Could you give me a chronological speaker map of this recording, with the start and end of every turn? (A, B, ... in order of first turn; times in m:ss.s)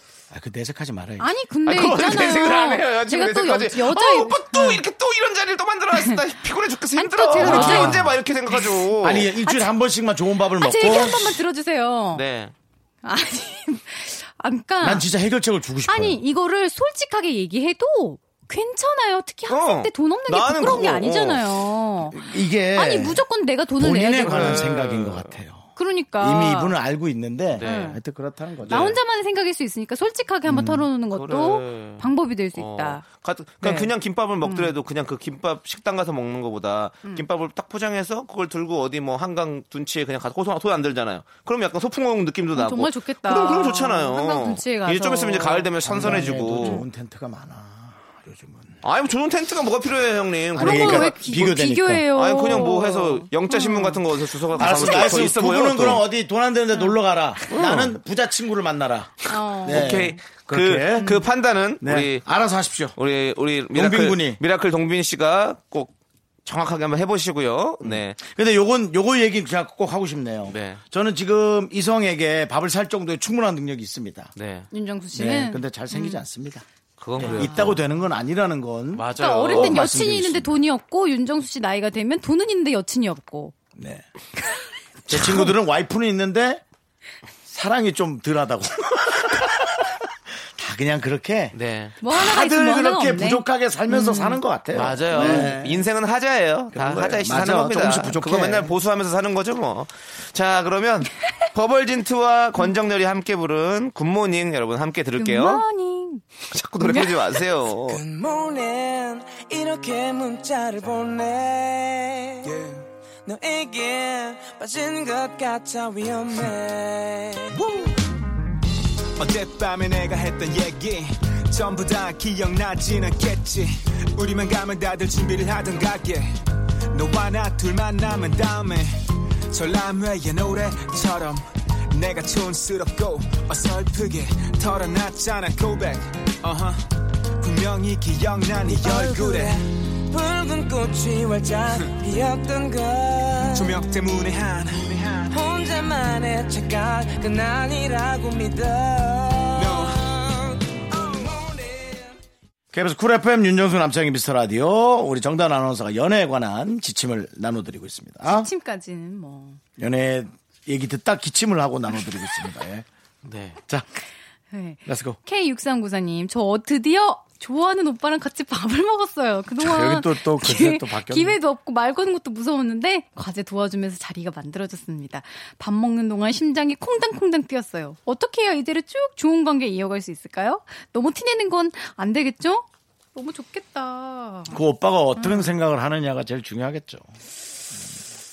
0:00.3-0:01.3 A
0:01.2-0:04.8 B
0:01.6-0:09.3 C
0:06.0-0:06.2 B
0:07.0-0:08.8 B
0:07.4-0:08.2 A
0:09.0-0:11.4 A
0:09.4-0:09.7 B
0:10.6-0:12.2 B
0:12.1-0:12.5 C
0:13.0-0:15.1 B
0:14.8-0:16.2 A
0:15.9-0:24.7 B
0:19.5-0:21.4 C
0:22.0-0:23.2 A
0:23.8-0:28.9 A
0:24.2-0:25.4 C
0:25.8-0:26.8 B
0:27.6-0:28.0 C
0:27.6-0:28.0 B
0:28.6-0:29.0 C
0:28.7-0:33.0 B
0:30.5-0:30.9 A
0:31.1-0:46.8 C
0:33.6-0:34.7 B
0:42.5-0:46.9 B
0:45.8-0:48.8 A
0:48.8-0:51.5 C
0:50.5-0:52.1 A
0:50.6-0:54.0 B
0:52.1-0:56.0 C
0:54.6-1:01.2 A
0:54.6-0:55.3 B
0:57.5-0:58.0 C
0:59.3-1:00.2 B
0:59.6-1:02.2 C
1:01.8-1:02.9 A
1:02.9-1:05.9 C
1:03.7-1:04.4 A
1:06.4-1:08.2 C
1:07.8-1:14.3 A
1:10.5-1:10.8 C
1:14.4-1:14.7 C
1:14.7-1:16.2 B
1:15.1-1:16.6 A
1:17.0-1:17.8 C
1:17.2-1:20.6 A
1:17.2-1:17.7 B
1:18.9-1:19.8 C
1:19.1-1:23.6 B
1:23.8-1:24.0 A
1:25.1-1:26.6 A
1:25.1-1:25.5 B
1:27.5-1:35.9 A
1:31.5-1:32.0 C
1:32.0-1:34.4 B
1:34.7-1:45.6 C
1:35.1-1:35.6 B
1:36.7-1:38.7 A
1:45.2-1:46.2 B
1:46.5-1:48.0 C
1:46.8-1:47.2 B
1:47.8-1:52.5 D
1:52.4-1:52.8 E
1:53.2-1:57.6 D
1:57.5-1:57.9 E
1:59.2-2:06.3 E
2:06.9-2:16.9 E
2:17.4-2:19.6 E
2:18.6-2:23.8 D
2:23.6-2:25.3 E
2:25.3-2:32.1 D
2:29.6-2:30.0 E
2:32.7-2:38.5 A
2:38.2-2:39.6 B
2:39.8-2:42.9 A
2:43.2-2:43.6 C
2:44.5-3:04.6 B
2:44.9-2:45.2 A
2:49.6-2:51.4 A
3:04.5-3:07.0 A
3:05.2-3:05.5 B